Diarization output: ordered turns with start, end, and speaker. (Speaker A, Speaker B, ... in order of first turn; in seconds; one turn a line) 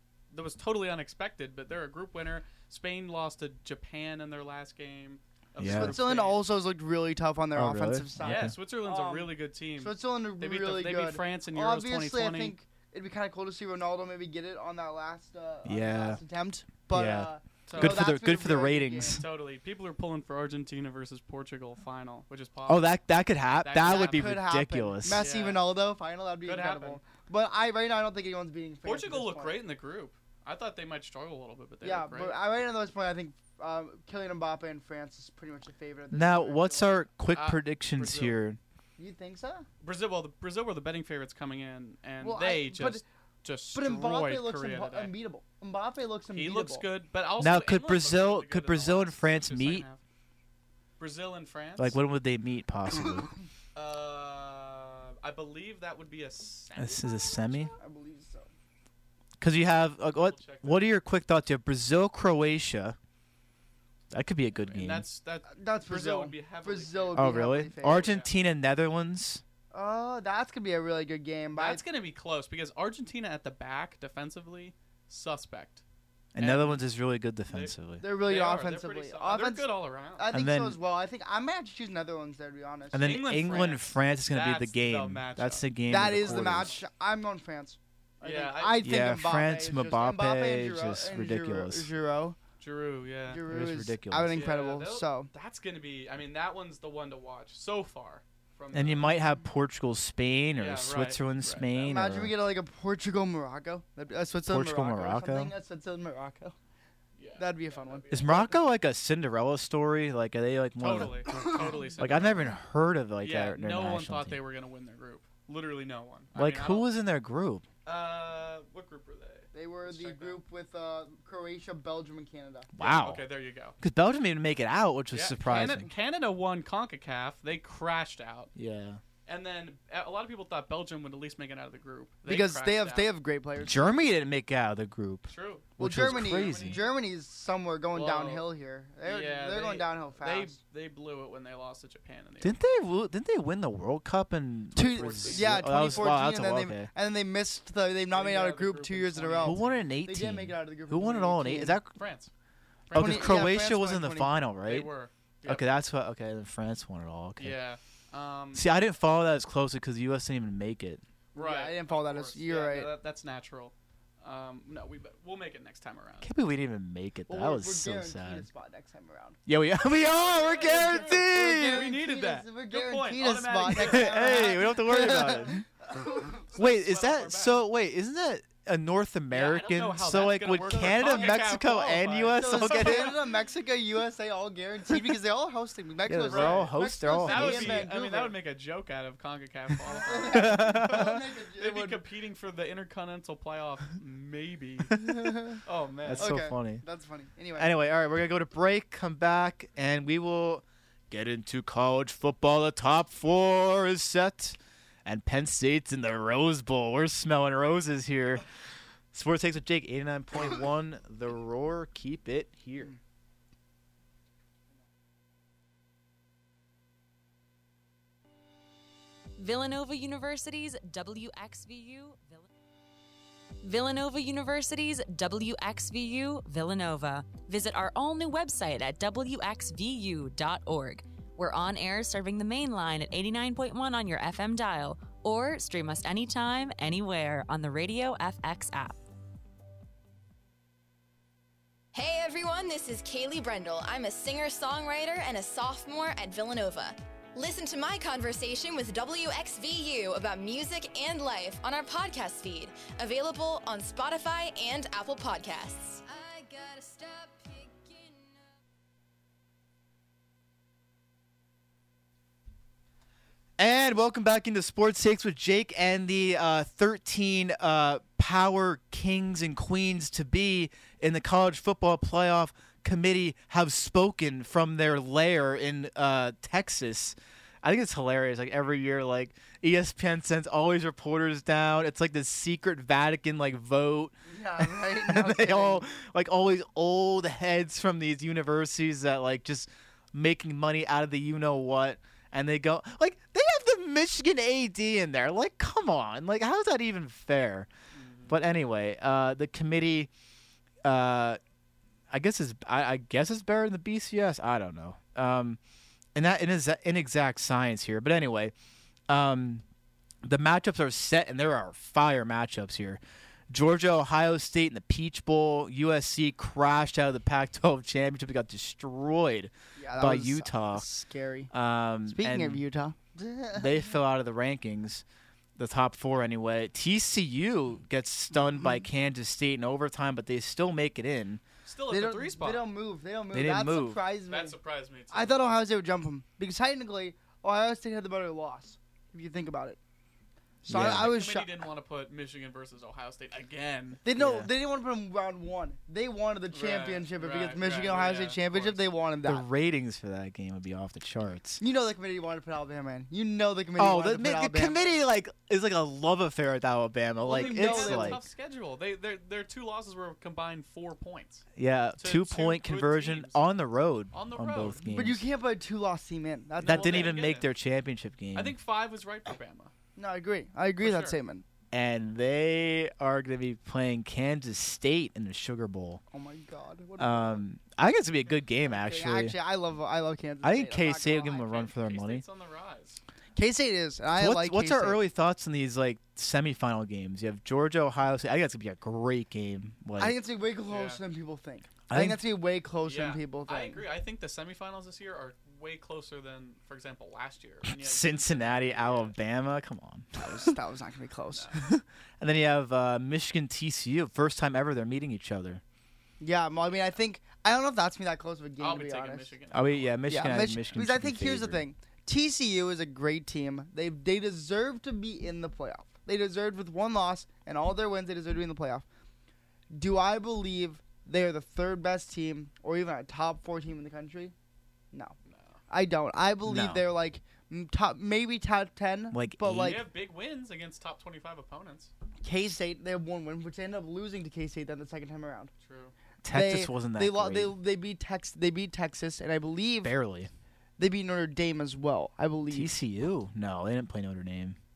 Speaker A: 0.3-6.4
Speaker B: 5.6-6.0
Speaker C: 5.6-19.2
Speaker B: 7.5-8.6
Speaker A: 8.2-12.6
Speaker B: 15.7-16.2
Speaker B: 16.9-19.2
Speaker A: 17.7-18.0
Speaker A: 19.2-23.0
Speaker B: 22.7-25.2
Speaker A: 23.6-24.4
Speaker C: 23.8-29.6
Speaker A: 25.1-25.6
Speaker A: 26.4-27.0
Speaker A: 28.8-32.4
Speaker C: 31.8-37.0
Speaker B: 36.1-38.6
Speaker A: 37.3-38.4
Speaker C: 39.0-39.7
Speaker A: 39.8-45.1
Speaker C: 42.2-43.0
Speaker C: 43.7-46.9
Speaker A: 46.3-50.0
Speaker B: 47.4-49.9
Speaker A: 51.0-52.0
Speaker B: 51.8-53.3
Speaker A: 53.8-57.8
Speaker B: 56.8-57.7
Speaker C: 57.8-58.5
Speaker B: 59.4-63.0
Speaker A: 60.1-60.9
Speaker B: 64.1-65.1
Speaker A: 64.6-68.3
Speaker C: 65.5-68.1
Speaker B: 67.1-69.4
Speaker C: 69.7-71.8
Speaker A: 71.6-75.8
Speaker B: 76.3-78.0
Speaker A: 76.4-76.8
Speaker A: 77.5-80.3
Speaker C: 78.0-83.2
Speaker B: 80.3-80.8
Speaker B: 82.9-86.7
Speaker A: 83.0-86.8
Speaker C: 85.9-92.4
Speaker A: 88.2-88.9
Speaker B: 88.8-91.9
Speaker A: 92.6-93.4
Speaker C: 93.3-95.3
Speaker B: 93.5-94.4
Speaker A: 94.3-99.1
Speaker B: 98.7-102.3
Speaker A: 100.6-101.9
Speaker C: 101.8-106.6
Speaker B: 104.5-105.5
Speaker A: 107.2-108.6
Speaker C: 107.4-108.4
Speaker B: 108.1-114.4
Speaker A: 110.8-112.5
Speaker C: 111.3-111.6
Speaker A: 113.2-116.9
Speaker B: 116.3-117.7
Speaker A: 117.8-120.4
Speaker C: 119.5-122.7
Speaker B: 122.8-123.3
Speaker A: 122.8-123.8
Speaker B: 123.8-125.9
Speaker A: 125.1-128.5
Speaker B: 128.6-129.0
Speaker A: 129.3-133.1
Speaker C: 132.3-134.0
Speaker B: 133.6-136.8
Speaker A: 135.3-136.8
Speaker C: 135.8-140.6
Speaker A: 137.9-138.5
Speaker A: 139.0-142.6
Speaker B: 142.4-146.9
Speaker C: 144.8-151.8
Speaker A: 144.8-146.1
Speaker A: 148.1-149.8
Speaker B: 149.4-151.9
Speaker A: 152.0-152.3
Speaker A: 152.9-153.6
Speaker B: 152.9-154.9
Speaker C: 152.9-154.3
Speaker A: 154.6-155.7
Speaker B: 155.4-157.6
Speaker A: 157.4-158.7
Speaker B: 158.5-161.0
Speaker C: 161.3-162.9
Speaker A: 161.3-166.3
Speaker B: 166.2-168.5
Speaker C: 167.3-169.4
Speaker B: 169.5-172.0
Speaker A: 170.2-175.4
Speaker C: 170.3-176.4
Speaker B: 173.7-175.7
Speaker A: 176.4-177.6
Speaker B: 176.6-183.2
Speaker A: 179.3-183.2
Speaker C: 180.8-181.5
Speaker C: 182.3-188.4
Speaker B: 186.1-187.9
Speaker A: 186.3-196.4
Speaker C: 189.9-192.0
Speaker B: 190.3-191.2
Speaker C: 195.2-195.6
Speaker B: 196.0-196.8
Speaker C: 196.2-197.7
Speaker B: 197.6-208.4
Speaker B: 209.1-212.9
Speaker D: 219.4-222.5
Speaker D: 223.6-239.0
Speaker E: 241.9-258.5
Speaker B: 263.6-297.7
Speaker C: 284.3-285.8
Speaker A: 297.9-298.4
Speaker B: 298.3-300.1
Speaker B: 300.8-301.4
Speaker B: 302.1-305.6
Speaker B: 306.1-308.5
Speaker B: 309.1-309.6
Speaker B: 310.2-320.9
Speaker C: 319.8-321.5
Speaker B: 321.5-322.6
Speaker C: 322.1-323.9
Speaker B: 323.6-325.0
Speaker B: 325.6-331.4
Speaker A: 331.6-332.6
Speaker C: 331.9-334.6
Speaker B: 333.3-334.0
Speaker A: 334.3-335.4
Speaker C: 335.1-339.8
Speaker C: 340.6-341.6
Speaker B: 340.7-341.1
Speaker A: 340.7-344.0
Speaker C: 344.1-349.5
Speaker B: 344.1-344.5
Speaker A: 346.5-348.8
Speaker B: 349.2-351.6
Speaker C: 351.6-355.0
Speaker B: 353.8-358.2
Speaker C: 357.3-358.2
Speaker A: 357.3-361.5
Speaker B: 361.6-365.2
Speaker A: 362.0-363.4
Speaker A: 364.1-364.8
Speaker C: 364.9-367.2
Speaker A: 366.6-367.5
Speaker B: 366.6-368.6
Speaker A: 368.3-369.7
Speaker C: 370.0-371.4
Speaker A: 370.8-371.2
Speaker B: 371.7-376.0
Speaker C: 376.1-377.4
Speaker B: 377.0-379.4
Speaker C: 378.6-381.5
Speaker B: 380.4-382.2
Speaker A: 381.3-383.0
Speaker C: 383.4-385.0
Speaker B: 384.1-390.2
Speaker C: 390.0-393.9
Speaker A: 390.7-391.0
Speaker B: 391.9-392.2
Speaker A: 392.8-399.2
Speaker B: 397.7-400.5
Speaker C: 400.2-401.5
Speaker B: 401.6-405.6
Speaker C: 406.2-409.3
Speaker A: 408.6-410.8
Speaker B: 409.5-411.6
Speaker C: 410.1-418.9
Speaker C: 419.7-424.3
Speaker A: 425.3-425.6
Speaker C: 425.7-429.8
Speaker B: 426.4-426.8
Speaker B: 429.1-429.8
Speaker A: 429.6-431.9
Speaker C: 432.2-435.5
Speaker A: 435.6-435.9
Speaker B: 436.2-437.6
Speaker C: 436.3-439.9
Speaker B: 439.8-440.3
Speaker C: 440.8-442.7
Speaker B: 442.5-444.6